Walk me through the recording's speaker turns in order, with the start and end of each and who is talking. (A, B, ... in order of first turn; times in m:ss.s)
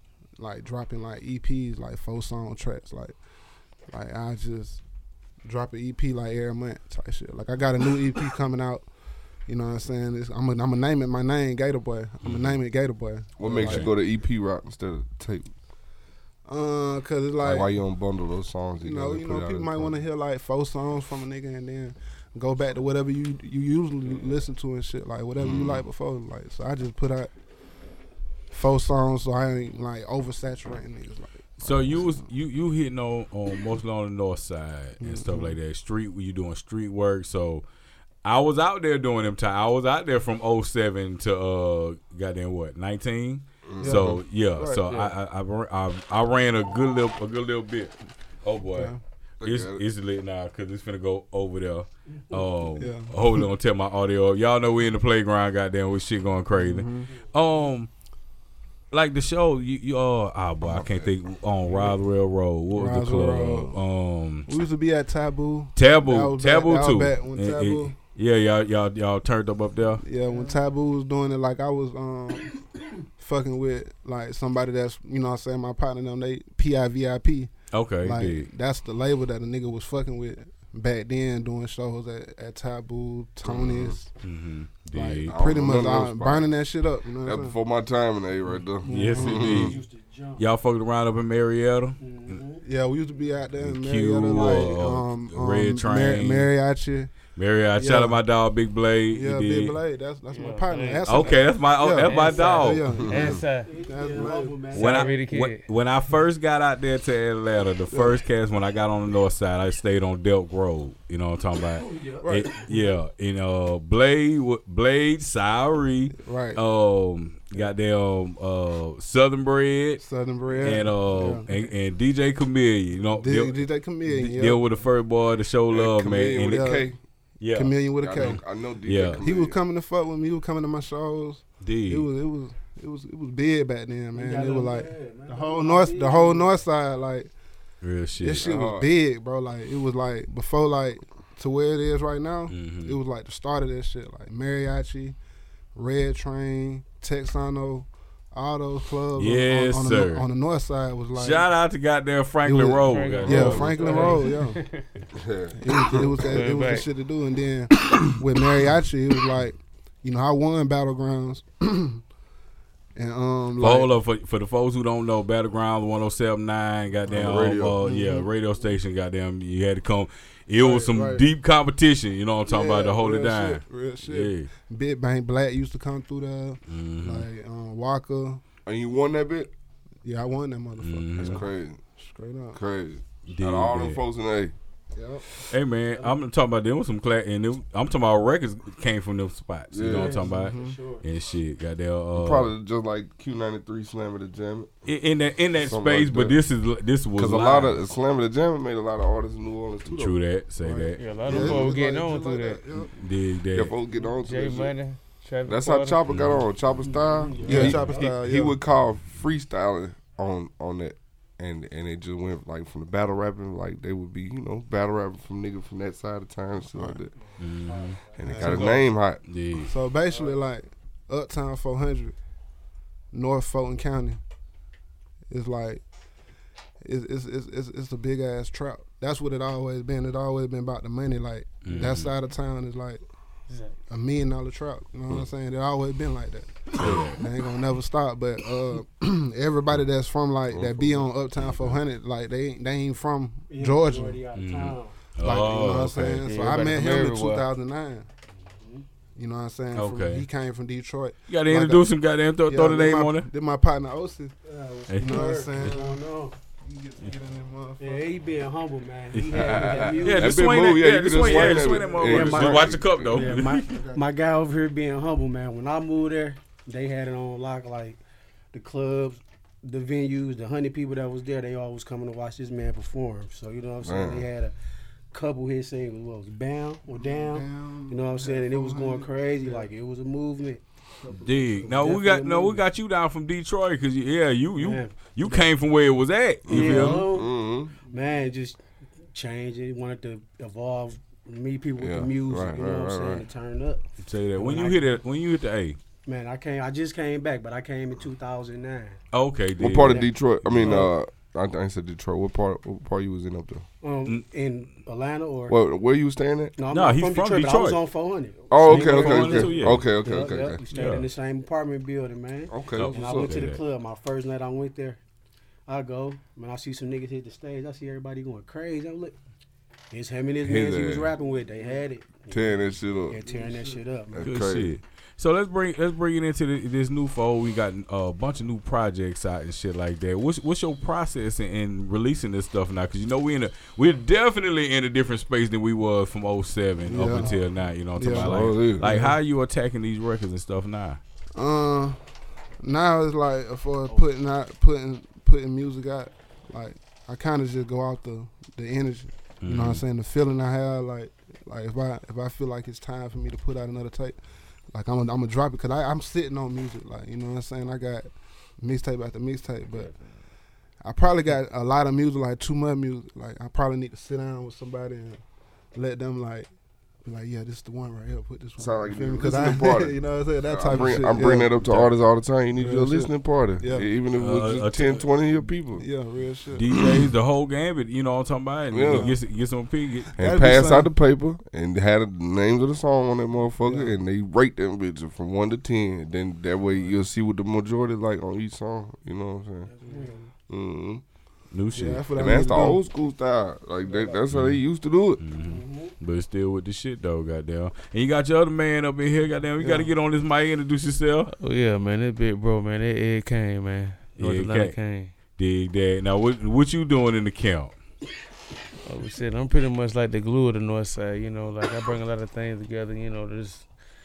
0:00.4-0:03.2 A
0:03.9-0:04.8 A
0:05.5-0:08.9 A
0:09.5-0:13.9 A
0:12.2-0:12.6 B
0:13.4-0:15.5 C
0:13.6-0:13.9 B
0:16.5-0:17.7 A
0:17.4-0:20.0 C
0:18.8-0:27.3 A
0:25.4-0:25.8 C
0:28.5-0:32.2 A
0:31.6-0:37.7 B
0:35.0-0:35.6 A
0:38.2-0:48.9 B
0:43.6-0:44.2 C
0:43.8-0:44.9 A
0:44.9-0:45.1 D
0:48.7-0:49.0 A
0:49.4-0:49.8 C
0:49.4-0:57.9 B
0:52.7-0:53.5 A
0:56.5-0:57.1 A
0:58.9-1:04.5 B
1:00.6-1:01.1 C
1:02.7-1:03.8 A
1:04.5-1:07.9 A
1:05.8-1:10.0 B
1:10.0-1:12.6 A
1:13.2-1:17.5 A
1:17.7-1:18.5 B
1:18.0-1:24.1 A
1:23.4-1:24.0 C
1:24.2-1:25.4 B
1:24.9-1:27.6 A
1:25.3-1:26.5 C
1:27.2-1:29.8 C
1:28.8-1:30.5 E
1:28.9-1:29.6 A
1:28.9-1:29.8 B
1:30.4-1:32.4 B
1:32.0-1:32.6 E
1:32.6-1:37.1 A
1:33.6-1:36.5 B
1:37.4-1:39.8 B
1:37.8-1:38.2 A
1:39.1-1:44.9 A
1:40.3-1:41.1 D
1:41.1-1:42.9 B
1:42.0-1:43.7 D
1:42.3-1:42.6 E
1:43.0-1:43.4 C
1:43.6-1:45.2 E
1:44.7-1:45.6 D
1:44.7-2:00.0 B
1:47.9-1:48.2 A
1:51.8-1:52.7 E
1:52.2-1:52.5 A
1:56.2-1:56.6 A
2:00.0-2:01.4 A
2:00.6-2:06.8 B
2:03.1-2:04.6 A
2:05.7-2:07.0 C
2:06.5-2:06.9 A
2:07.4-2:09.2 B
2:07.5-2:08.4 A
2:08.0-2:09.6 C
2:09.2-2:17.3 A
2:11.6-2:12.1 B
2:14.1-2:16.6 E
2:17.8-2:18.5 B
2:18.2-2:25.2 A
2:18.4-2:18.9 C
2:22.5-2:23.0 B
2:25.8-2:31.5 A
2:29.2-2:30.3 B
2:31.1-2:34.0 B
2:32.4-2:34.6 A
2:32.8-2:34.9 D
2:35.1-2:36.3 C
2:35.6-2:42.0 A
2:36.2-2:36.8 D
2:42.9-2:43.9 A
2:43.6-2:54.5 B
2:47.1-2:47.8 C
2:47.8-2:48.3 A
2:50.6-2:51.3 A
2:52.4-2:58.4 A
2:56.7-2:57.3 B
2:58.7-2:59.5 C
3:00.0-3:01.4 A
3:00.8-3:01.4 B
3:01.2-3:01.8 C
3:02.0-3:02.6 A
3:02.6-3:04.5 C
3:03.2-3:04.0 B
3:04.9-3:05.3 A
3:05.5-3:12.5 B
3:05.9-3:06.2 E
3:09.7-3:10.2 C
3:09.9-3:11.1 E
3:10.3-3:10.8 A
3:12.1-3:14.7 C
3:14.8-3:17.9 B
3:15.5-3:16.4 C
3:17.2-3:20.2 C
3:19.8-3:21.6 B
3:20.6-3:22.9 A
3:21.0-3:22.9 D
3:21.3-3:21.6 C
3:23.0-3:23.7 B
3:23.5-3:24.8 C
3:24.0-3:26.1 D
3:25.4-3:37.1 C
3:26.1-3:26.4 B
3:26.8-3:28.1 E
3:27.4-3:28.6 A
3:27.4-3:27.9 B
3:36.7-3:37.0 A
3:37.4-3:38.0 B
3:38.2-3:39.2 C
3:38.2-3:38.8 A
3:38.4-3:38.8 D
3:39.2-3:39.8 B
3:39.6-3:42.2 A
3:43.1-3:44.2 A
3:45.3-3:45.8 A
3:46.8-3:53.0 A
3:51.6-3:52.1 B
3:53.9-4:04.2 A
3:56.8-3:57.2 B
3:56.8-3:57.1 C
4:00.5-4:01.8 C
4:03.5-4:05.0 E
4:04.3-4:06.2 B
4:05.2-4:08.1 A
4:06.2-4:07.5 D
4:08.6-4:08.8 E
4:09.2-4:11.9 A
4:09.7-4:10.3 B
4:11.3-4:13.3 B
4:12.4-4:14.3 A
4:14.4-4:16.4 E
4:14.9-4:15.3 B
4:15.0-4:18.3 A
4:17.8-4:20.3 E
4:19.1-4:23.8 B
4:19.2-4:23.3 C
4:19.7-4:20.5 A
4:21.2-4:28.0 E
4:21.2-4:24.2 A
4:28.5-4:34.6 E
4:33.8-4:34.3 C
4:35.1-4:40.6 E
4:36.9-4:39.7 A
4:41.1-4:47.1 B
4:41.7-4:42.6 E
4:44.6-4:45.1 E
4:45.2-4:45.5 A
4:46.4-4:47.7 C
4:46.5-4:47.0 A
4:46.5-4:54.8 E
4:51.8-4:53.3 C
4:54.0-4:55.8 B
4:56.0-4:59.0 E
4:59.1-5:00.9 B
4:59.6-5:03.6 C
4:59.9-5:00.9 E
5:03.8-5:05.6 E
5:05.5-5:06.6 C
5:06.6-5:15.0 E
5:06.7-5:07.8 B
5:08.5-5:10.6 C
5:08.6-5:09.9 B
5:10.7-5:11.1 B
5:12.5-5:13.4 C
5:12.7-5:13.6 B
5:15.7-5:19.2 E
5:19.9-5:24.2 E
5:20.4-5:21.1 C
5:22.3-5:23.2 C
5:24.1-5:24.7 C
5:24.2-5:41.0 B
5:36.8-5:37.4 A
5:37.9-5:39.2 A
5:38.2-5:38.8 C
5:41.3-5:42.0 A
5:42.6-5:54.2 A
5:49.4-5:49.8 B
5:54.7-5:58.1 A
5:58.6-5:59.9 A
6:00.8-6:05.2 A
6:05.8-6:06.5 A
6:07.0-6:11.9 A
6:08.6-6:15.8 C
6:12.6-6:13.9 A
6:14.2-6:15.1 B
6:15.7-6:16.7 A
6:16.6-6:20.1 B
6:16.7-6:17.0 C
6:18.7-6:19.1 C
6:18.9-6:19.2 A
6:20.1-6:20.9 A
6:20.2-6:29.7 C
6:23.6-6:24.0 A
6:29.7-6:30.2 E
6:29.9-6:30.2 A
6:30.5-6:31.0 C
6:31.5-6:32.4 B
6:31.7-6:32.8 A
6:32.2-6:35.2 C
6:33.8-6:34.2 E
6:34.3-6:34.6 B
6:35.2-6:41.3 B
6:35.5-6:36.0 E
6:39.6-6:39.9 A
6:41.3-6:45.1 D
6:44.2-6:44.8 B
6:45.4-6:47.8 B
6:48.8-6:53.7 D